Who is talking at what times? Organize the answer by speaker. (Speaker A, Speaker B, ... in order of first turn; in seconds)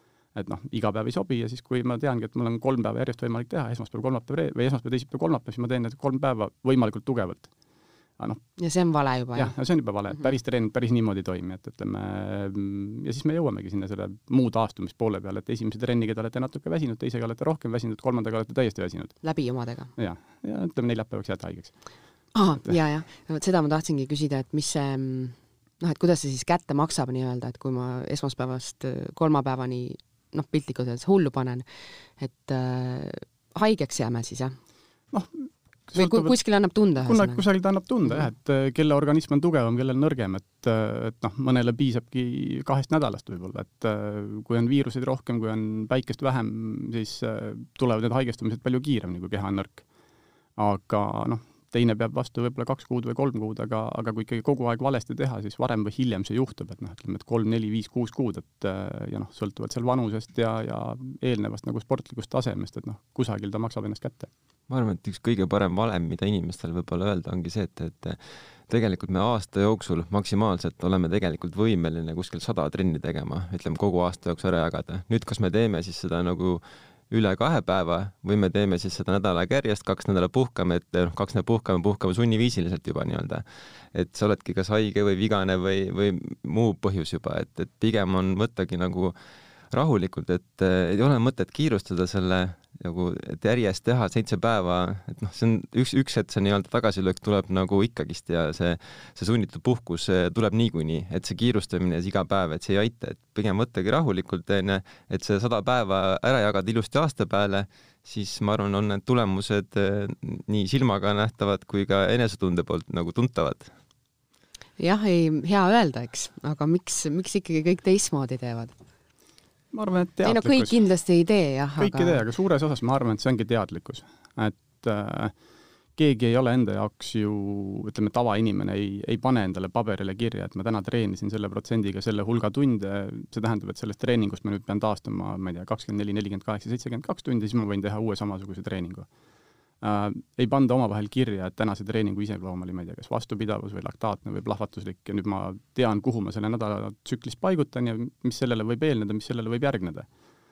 Speaker A: 0.3-7.5, 9.3-19.2, 19.9-21.8, 35.1-36.4, 37.0-49.8, 50.6-64.3, 119.7-120.8, 121.8-125.3, 126.0-139.1, 139.8-150.1
Speaker B: 8.6-9.5, 19.2-19.9, 22.3-31.6, 32.2-34.5, 36.0-37.4, 114.8-118.7, 120.2-122.2
Speaker C: 64.7-89.2, 89.7-113.7